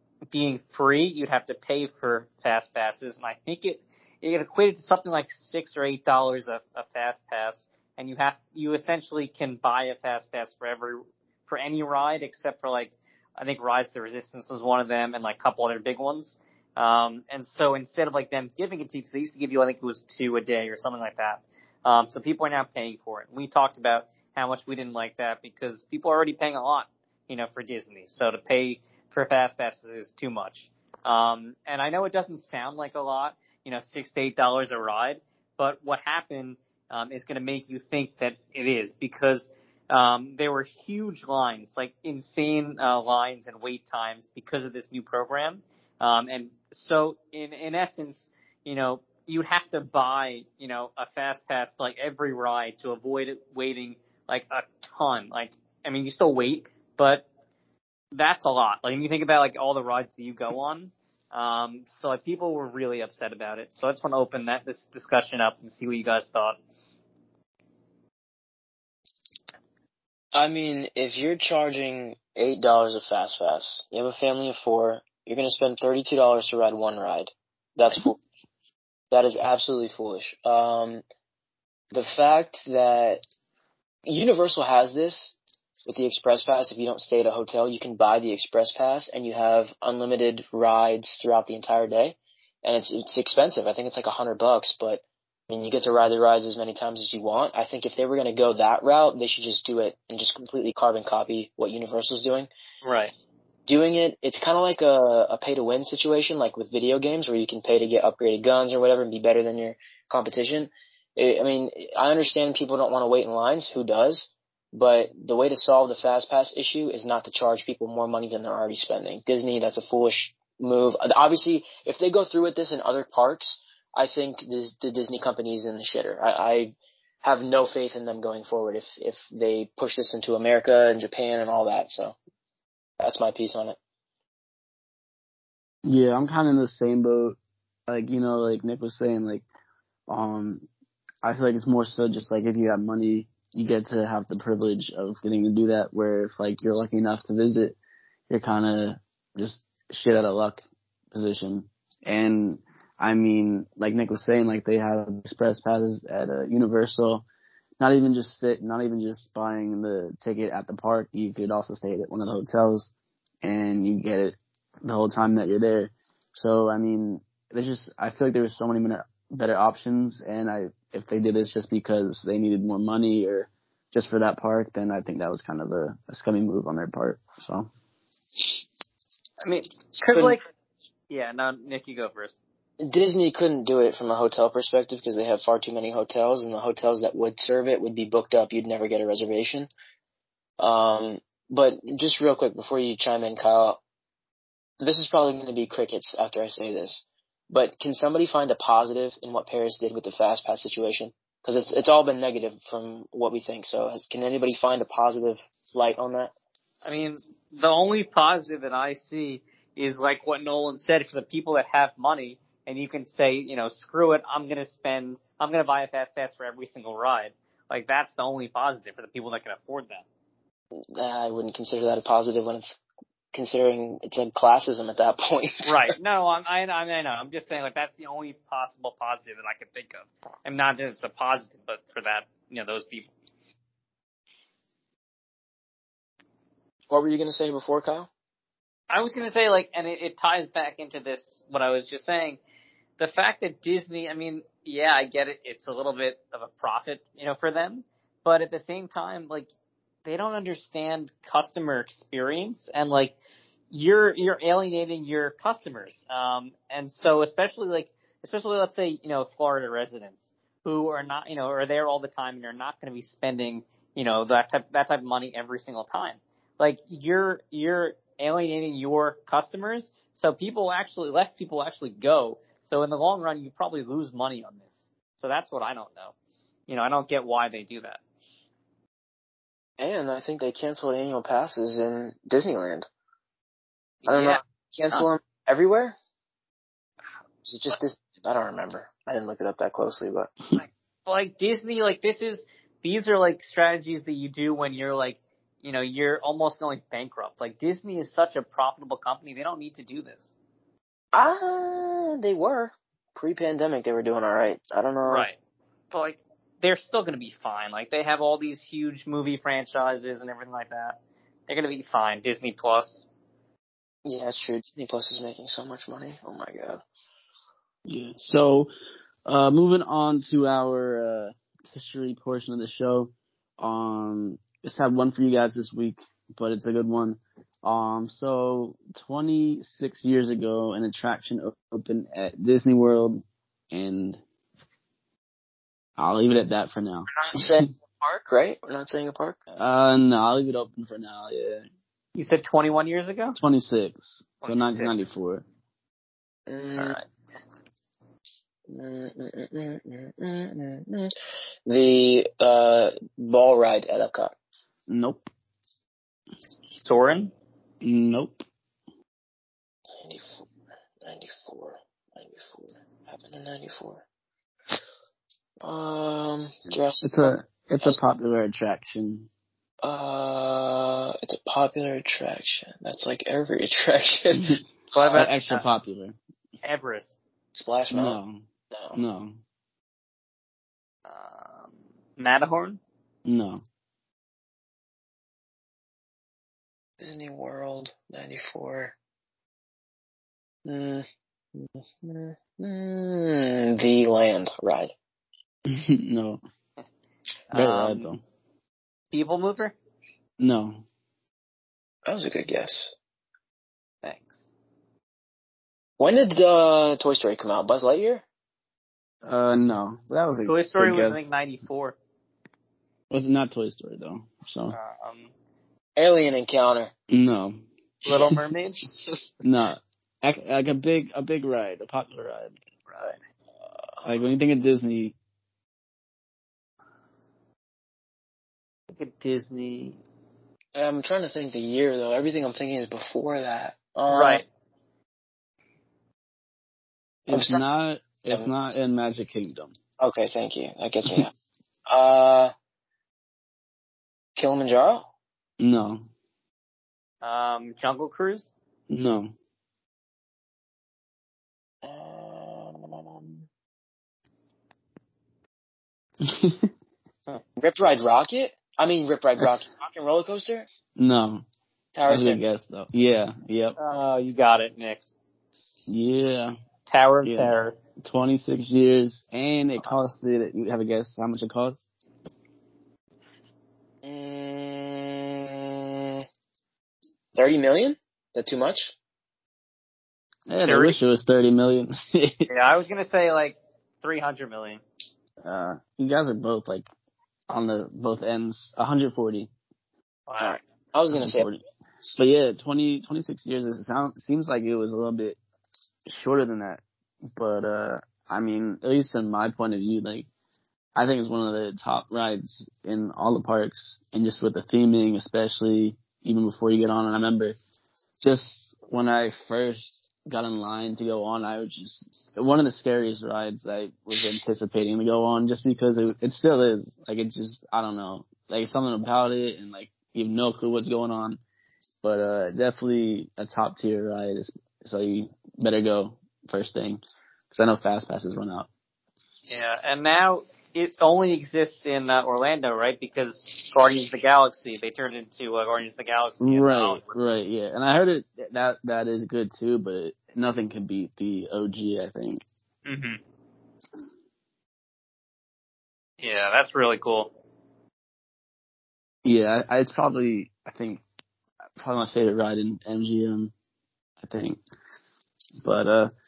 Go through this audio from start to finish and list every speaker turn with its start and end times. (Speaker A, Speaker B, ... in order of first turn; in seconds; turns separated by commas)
Speaker A: 0.3-57.2, Speaker A: 58.1-66.6, Speaker B: 70.3-78.2, Speaker B: 79.1-81.0, Speaker B: 81.9-83.2, Speaker B: 84.0-102.5, Speaker A: 102.8-103.1, Speaker B: 103.7-132.2, Speaker B: 133.0-133.8, Speaker C: 135.8-139.4, Speaker C: 140.1-140.7, Speaker C: 141.2-147.8, Speaker C: 148.3-157.2, Speaker C: 157.8-162.9, Speaker C: 163.4-177.7, Speaker A: 179.4-180.4, Speaker B: 180.1-180.4, Speaker A: 181.1-182.3, Speaker B: 182.8-189.7, Speaker B: 190.6-193.8, Speaker B: 194.8-206.3, Speaker A: 206.8-220.0, Speaker B: 220.7-222.8, Speaker B: 223.3-225.8, Speaker A: 225.6-233.1, Speaker B: 236.9-238.1, Speaker A: 238.9-242.4, Speaker A: 243.0-249.5, Speaker A: 250.0-253.1, Speaker A: 253.7-276.1, Speaker A: 276.7-278.0, Speaker B: 279.8-282.9, Speaker A: 284.0-284.4, Speaker B: 284.1-285.9, Speaker B: 287.4-290.3, Speaker A: 290.6-300.3, Speaker B: 301.1-305.3, Speaker A: 305.0-305.4, Speaker A: 305.9-313.1, Speaker B: 314.0-316.8, Speaker C: 317.9-318.7, Speaker C: 319.2-334.2, Speaker C: 336.0-337.6, Speaker B: 337.1-339.4, Speaker C: 339.5-341.6, Speaker A: 342.1-343.4, Speaker C: 343.3-345.4, Speaker A: 344.4-344.9, Speaker B: 346.5-347.0, Speaker B: 348.7-351.1, Speaker B: 351.6-354.3, Speaker C: 354.9-355.3, Speaker A: 356.7-357.3, Speaker C: 357.8-358.4, Speaker B: 360.0-360.5, Speaker B: 361.0-364.0, Speaker B: 365.6-368.0, Speaker C: 367.0-369.3, Speaker B: 369.8-375.3, Speaker A: 374.9-375.6, Speaker C: 375.1-376.2, Speaker A: 376.6-377.1, Speaker B: 377.5-378.2, Speaker C: 377.9-379.4, Speaker B: 378.7-379.0, Speaker A: 381.1-382.8, Speaker C: 383.2-383.6, Speaker B: 387.0-388.9, Speaker B: 390.6-391.1, Speaker B: 391.6-394.9, Speaker C: 395.7-396.4, Speaker A: 397.5-398.1, Speaker C: 397.5-398.2, Speaker A: 399.1-399.7, Speaker C: 400.4-400.8, Speaker B: 402.1-402.9, Speaker A: 404.0-404.5, Speaker B: 406.0-408.2, Speaker C: 409.2-411.3, Speaker A: 410.4-411.9, Speaker C: 413.1-414.8, Speaker A: 414.7-415.3, Speaker B: 415.9-416.9, Speaker C: 417.1-417.6, Speaker A: 418.1-418.8, Speaker C: 419.4-422.6, Speaker A: 422.9-423.2, Speaker C: 424.0-425.1, Speaker A: 428.9-430.0, Speaker B: 430.7-434.4, Speaker A: 434.1-434.4, Speaker C: 437.3-439.7, Speaker B: 437.3-437.6, Speaker B: 440.0-441.3, Speaker B: 441.9-442.5, Speaker B: 444.4-445.1, Speaker C: 445.6-446.1, Speaker A: 447.2-448.5, Speaker C: 448.9-449.3, Speaker B: 451.8-453.5, Speaker C: 456.2-456.7, Speaker B: 457.6-460.7, Speaker C: 460.9-461.4, Speaker B: 461.9-462.4, Speaker C: 462.1-463.8, Speaker A: 463.8-465.1, Speaker C: 465.9-466.6, Speaker A: 466.9-467.8, Speaker C: 467.2-471.9, Speaker B: 474.0-476.2, Speaker B: 477.3-478.9, Speaker C: 480.5-482.5, Speaker A: 480.7-481.0, Speaker A: 482.5-484.8, Speaker C: 485.4-486.9, Speaker C: 487.5-489.5, Speaker A: 490.3-490.6, Speaker B: 490.4-491.5, Speaker C: 491.1-491.6, Speaker C: 492.1-495.4, Speaker C: 496.1-496.8, Speaker C: 497.4-500.3, Speaker C: 500.9-507.6, Speaker C: 508.2-521.4, Speaker C: 522.0-528.7, Speaker A: 529.5-537.1, Speaker C: 536.4-542.4, Speaker A: 542.9-543.2, Speaker A: 546.2-547.3, Speaker C: 549.2-551.0, Speaker C: 551.8-553.5, Speaker C: 554.2-554.6, Speaker C: 555.6-556.1